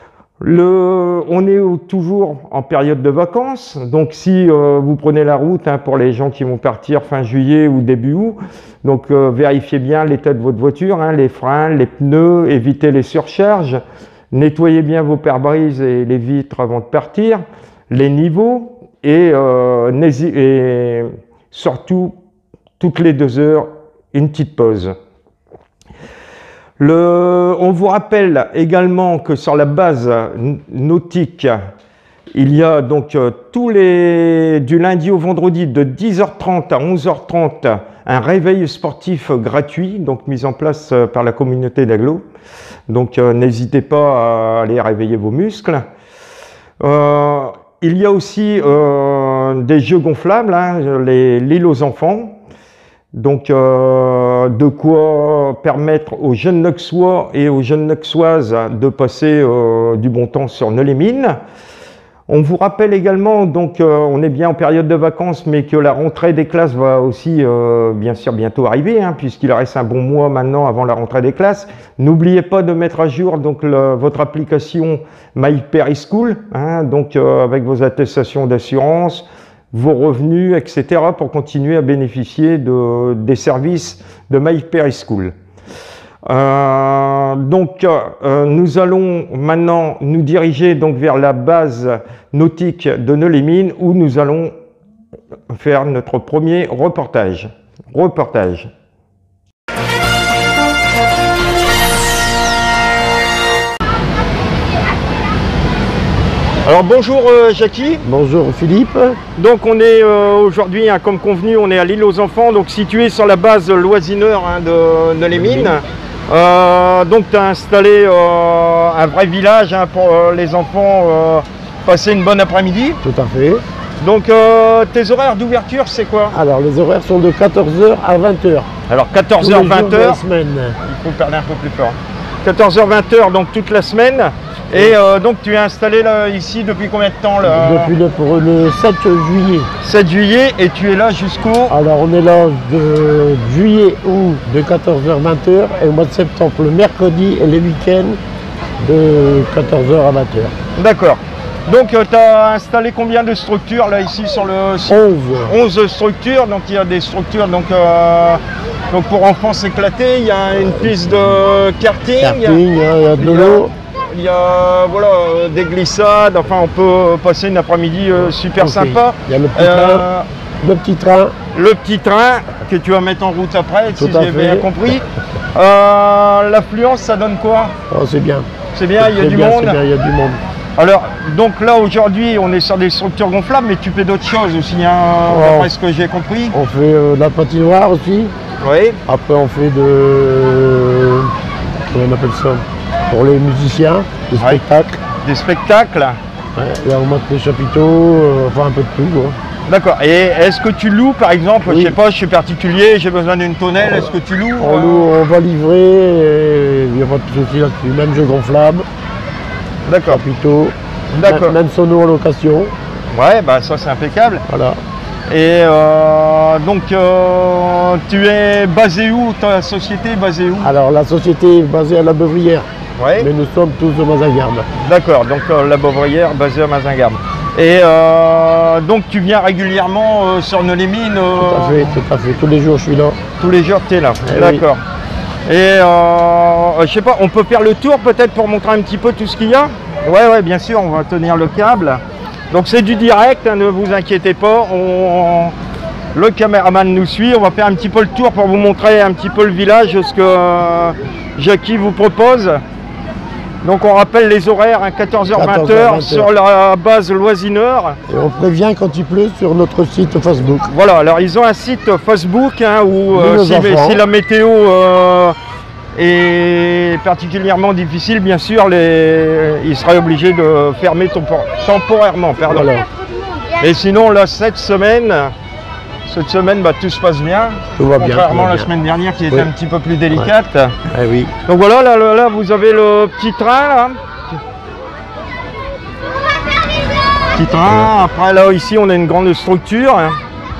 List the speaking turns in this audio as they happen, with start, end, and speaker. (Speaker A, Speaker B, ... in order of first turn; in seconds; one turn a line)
Speaker A: 0.4-13.8
Speaker A: 14.3-22.1
Speaker A: 22.8-24.9
Speaker A: 26.8-31.6
Speaker A: 32.3-42.2
Speaker A: 42.9-45.9
Speaker A: 46.8-52.4
Speaker A: 53.1-61.4
Speaker A: 62.3-85.3
Speaker A: 86.3-94.5
Speaker A: 95.5-98.7
Speaker A: 106.6-108.0
Speaker B: 108.0-109.2
Speaker A: 109.4-123.0
Speaker B: 115.3-115.8
Speaker B: 123.0-123.6
Speaker A: 124.0-126.4
Speaker B: 126.3-128.7
Speaker A: 128.9-130.2
Speaker B: 129.4-130.8
Speaker A: 130.8-137.9
Speaker B: 134.8-135.0
Speaker B: 137.4-139.7
Speaker A: 139.8-141.8
Speaker B: 141.7-148.2
Speaker B: 148.8-150.6
Speaker A: 150.8-162.6
Speaker B: 154.9-155.6
Speaker B: 162.2-163.7
Speaker A: 163.2-170.3
Speaker B: 168.6-170.1
Speaker B: 170.6-171.3
Speaker A: 171.5-177.8
Speaker B: 174.0-174.7
Speaker B: 177.9-180.4
Speaker A: 178.7-179.8
Speaker A: 180.8-186.6
Speaker B: 185.3-185.7
Speaker B: 186.5-188.3
Speaker A: 188.6-189.0
Speaker B: 189.1-191.3
Speaker B: 191.8-195.0
Speaker A: 195.2-196.2
Speaker B: 196.6-199.4
Speaker A: 199.7-205.1
Speaker B: 201.7-202.0
Speaker B: 204.6-208.9
Speaker A: 209.9-210.2
Speaker B: 210.1-212.7
Speaker A: 211.1-211.6
Speaker A: 213.1-214.4
Speaker B: 214.5-214.8
Speaker A: 215.3-220.7
Speaker B: 220.6-224.7
Speaker A: 223.0-223.3
Speaker A: 224.8-231.9
Speaker B: 231.4-233.2
Speaker A: 233.4-234.8
Speaker B: 234.3-234.6
Speaker A: 235.5-245.6
Speaker A: 246.2-252.6
Speaker A: 253.6-258.0
Speaker B: 255.3-256.3
Speaker B: 258.1-260.6
Speaker A: 260.7-265.4
Speaker B: 263.1-264.0
Speaker A: 266.0-272.7
Speaker B: 272.5-272.9
Speaker A: 273.6-275.3
Speaker A: 276.1-280.8
Speaker B: 277.8-278.7
Speaker B: 280.9-281.3
Speaker A: 281.5-284.4
Speaker A: 287.4-290.2